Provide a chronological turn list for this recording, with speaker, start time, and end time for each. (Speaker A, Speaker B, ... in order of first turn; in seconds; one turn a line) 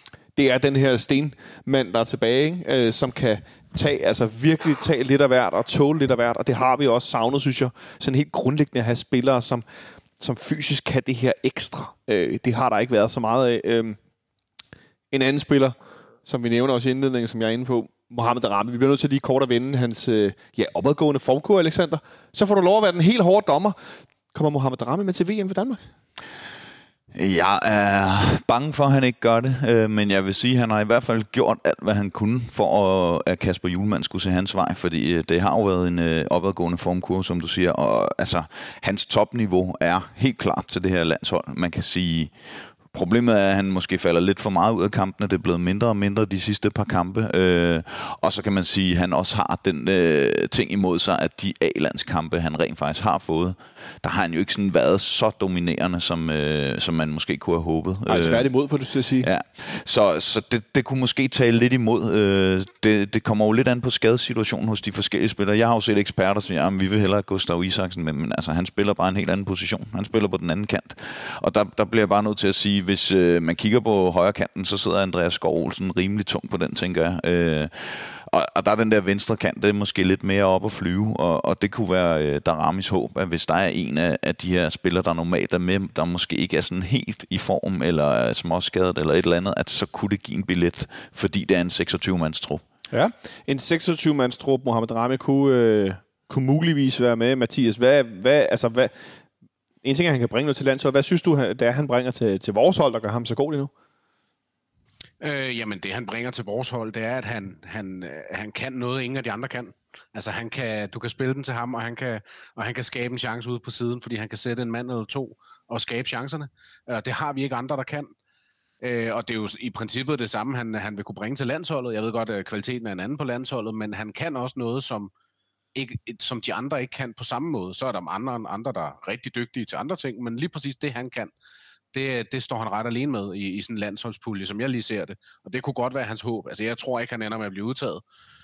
Speaker A: 0.3-9.6
Speaker A: 10.2-14.0
Speaker A: 15.1-23.8
Speaker A: 24.3-25.8
Speaker B: 27.1-42.3
Speaker B: 42.9-58.5
Speaker A: 58.1-59.3
Speaker B: 59.2-92.6
Speaker A: 92.9-98.9
Speaker A: 99.8-103.7
Speaker C: 105.2-118.1
Speaker C: 118.8-125.1
Speaker C: 125.8-131.3
Speaker C: 131.9-138.0